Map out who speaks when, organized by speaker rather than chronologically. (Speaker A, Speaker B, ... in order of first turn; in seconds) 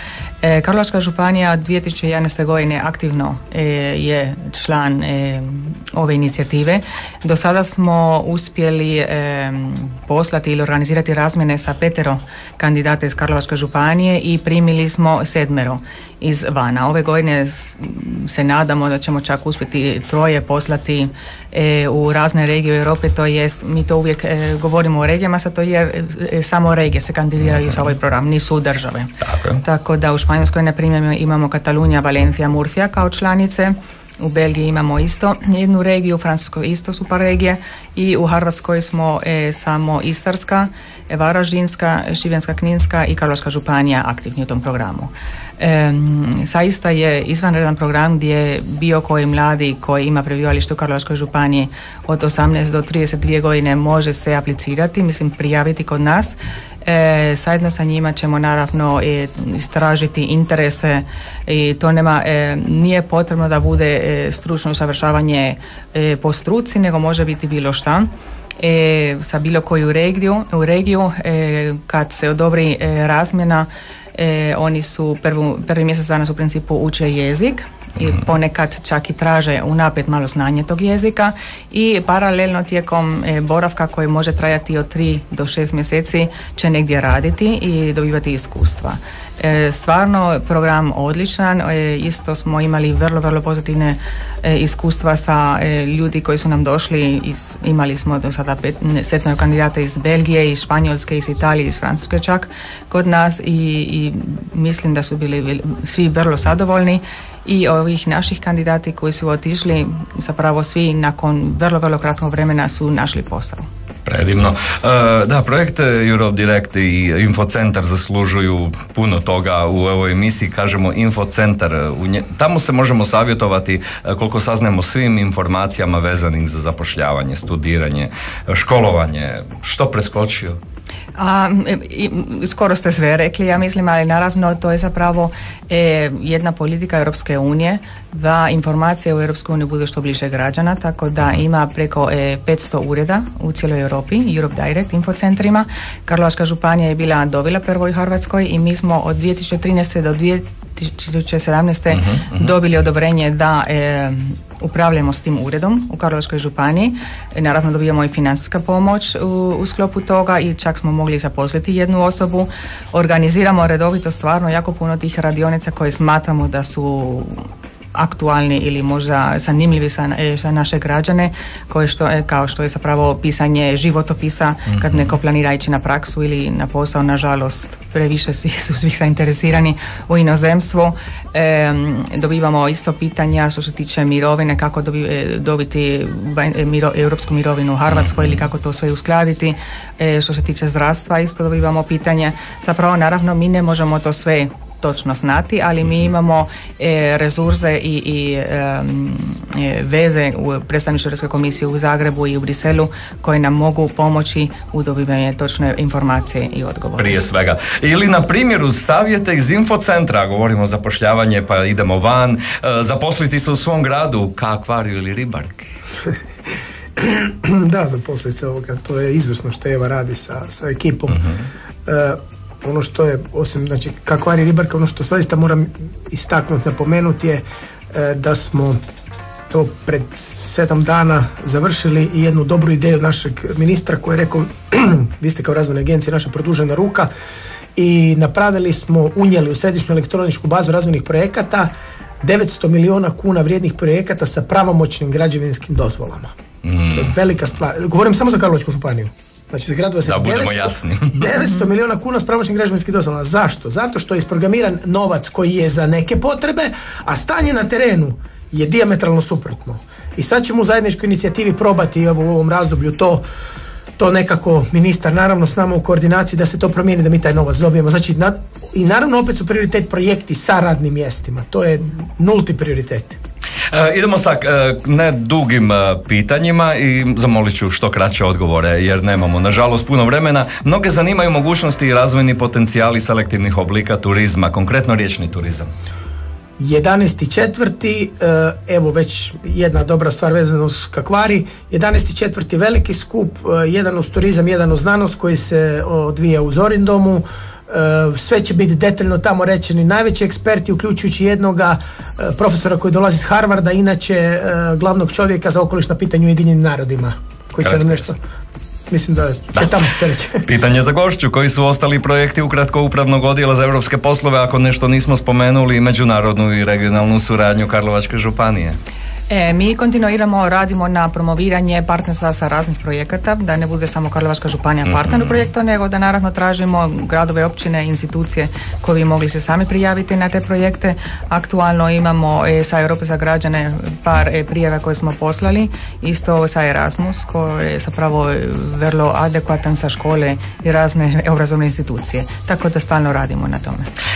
Speaker A: 0.4-29.1, 29.6-113.7, 131.2-207.2, 319.3-343.9
Speaker B: 29.2-29.6, 114.0-130.6, 151.9-152.5, 174.7-175.1, 187.9-188.4, 207.0-215.7, 221.1-221.4, 246.6-247.1, 250.0-251.3, 273.7-285.7, 307.6-308.1, 310.4-318.8, 324.8-325.4
Speaker C: 216.9-221.3, 221.8-228.8, 229.5-237.1, 237.7-241.7, 242.2-246.3, 246.9-263.2, 264.0-273.2, 286.6-308.2, 308.9-310.5